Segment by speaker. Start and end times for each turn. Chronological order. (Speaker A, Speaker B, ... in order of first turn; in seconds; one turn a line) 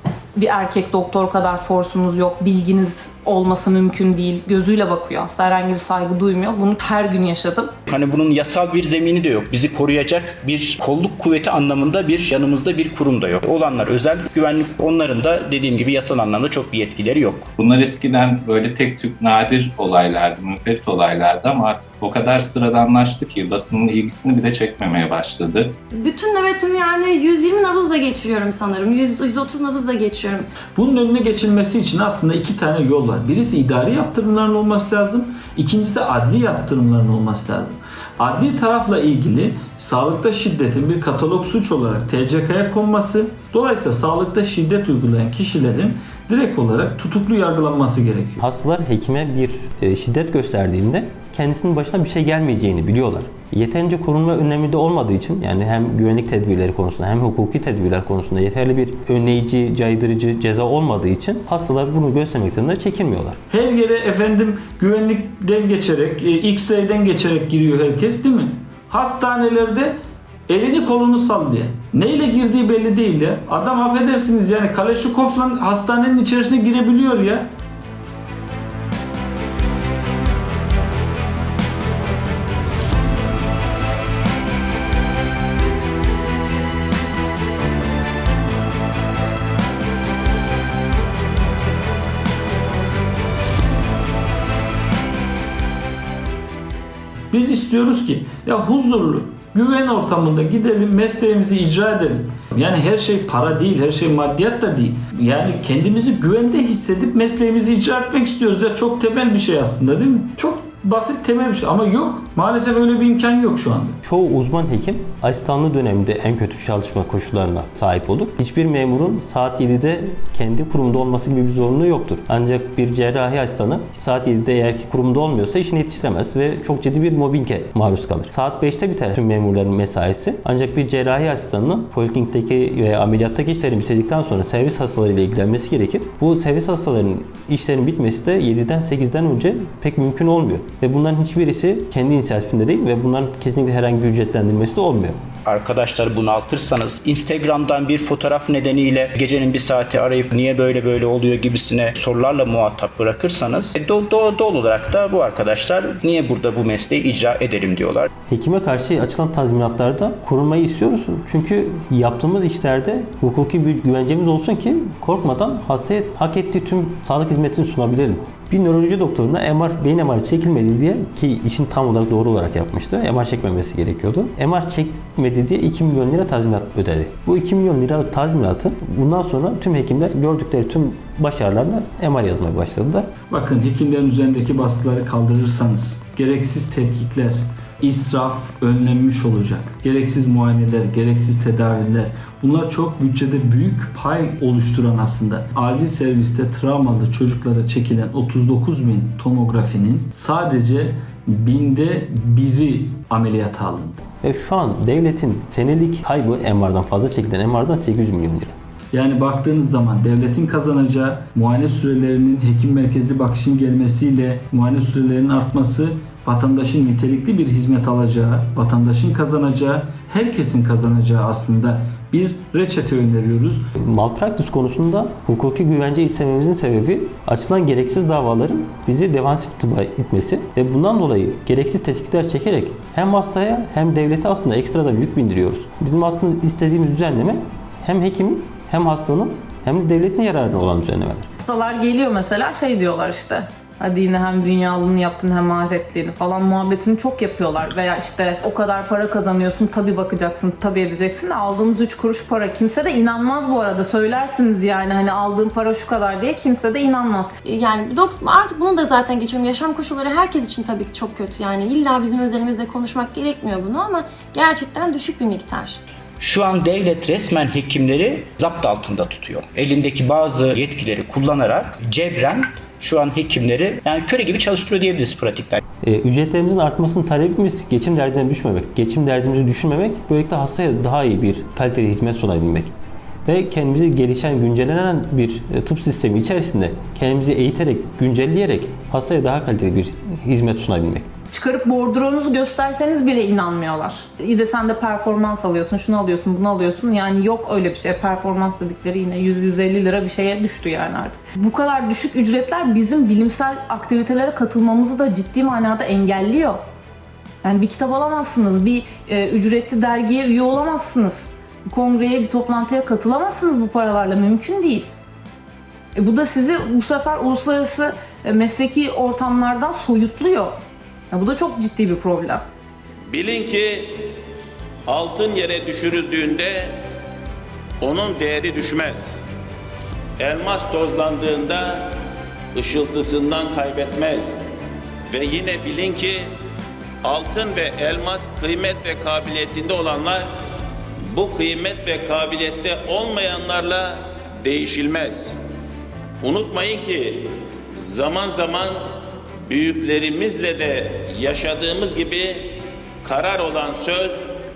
Speaker A: 0.3-7.8
Speaker B: 7.9-17.5
Speaker C: 17.6-25.8
Speaker D: 25.9-30.5
Speaker E: 30.8-48.4
Speaker F: 48.4-63.4
Speaker E: 63.5-77.5
Speaker E: 97.3-114.0
Speaker F: 114.0-145.2
Speaker B: 145.5-158.1
Speaker F: 158.3-183.1
Speaker E: 183.3-204.0
Speaker F: 204.2-208.5
Speaker E: 208.9-223.6
Speaker F: 223.8-241.3
Speaker A: 241.4-257.3
Speaker D: 257.4-265.8
Speaker B: 266.2-275.6
Speaker F: 275.8-282.7
Speaker F: 283.3-291.1
Speaker A: 291.3-306.6
Speaker A: 307.4-314.9
Speaker A: 315.9-320.6
Speaker A: 321.1-322.4
Speaker G: 323.1-324.2
Speaker G: 324.9-326.8
Speaker G: 327.8-329.2
Speaker G: 330.2-331.9
Speaker G: 332.5-334.4
Speaker G: 335.1-336.3
Speaker G: 337.0-340.3
Speaker G: 341.0-345.4
Speaker G: 346.2-348.8
Speaker G: 349.5-354.3